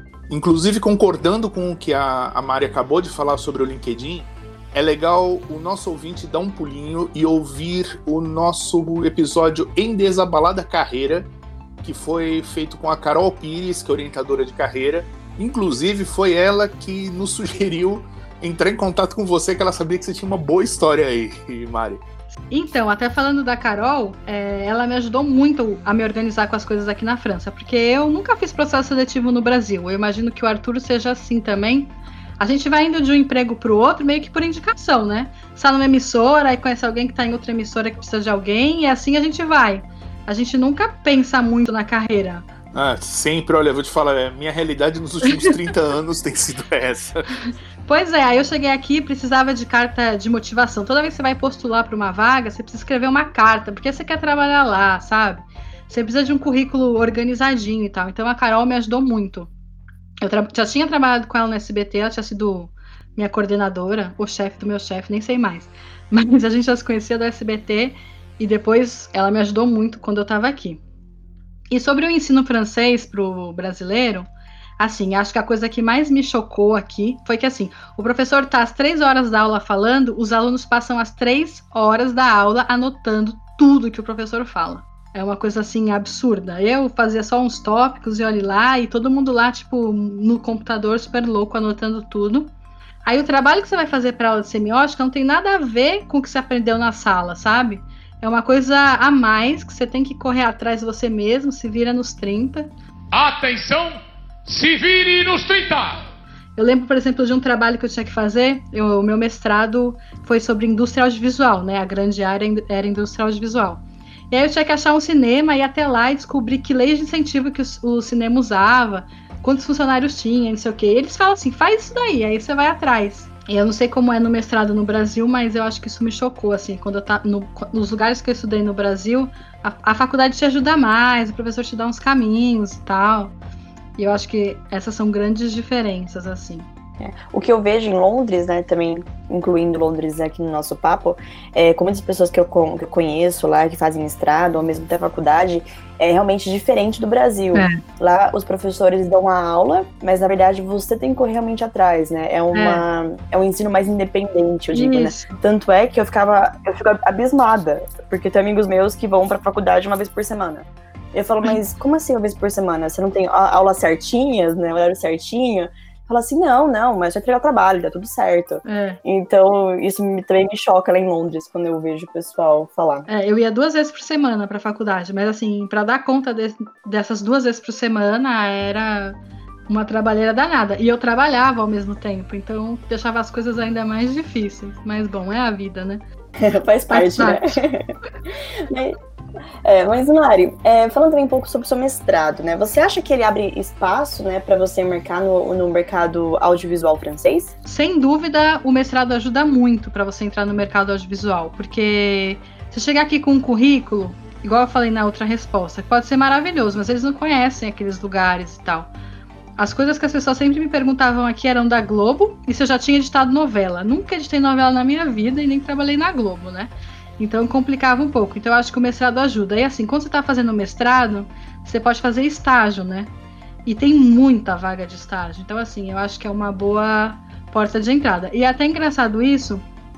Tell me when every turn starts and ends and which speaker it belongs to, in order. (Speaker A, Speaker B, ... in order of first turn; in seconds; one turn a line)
Speaker A: 0.3-11.3
Speaker A: 11.8-22.0
Speaker B: 22.5-42.5
Speaker A: 42.7-47.2
Speaker B: 47.8-59.5
Speaker B: 60.2-70.8
Speaker B: 71.7-92.5
Speaker B: 93.0-102.7
Speaker C: 103.1-106.1
Speaker B: 106.6-133.3
Speaker B: 134.0-136.7
Speaker D: 137.0-173.1
Speaker B: 152.5-152.8
Speaker B: 154.7-155.4
Speaker B: 168.6-169.0
Speaker B: 173.1-179.2
Speaker B: 179.7-186.0
Speaker D: 186.4-187.9
Speaker B: 186.9-187.4
Speaker D: 188.6-189.0
Speaker D: 189.6-197.5
Speaker B: 197.6-208.9
Speaker B: 209.6-223.1
Speaker B: 223.7-229.7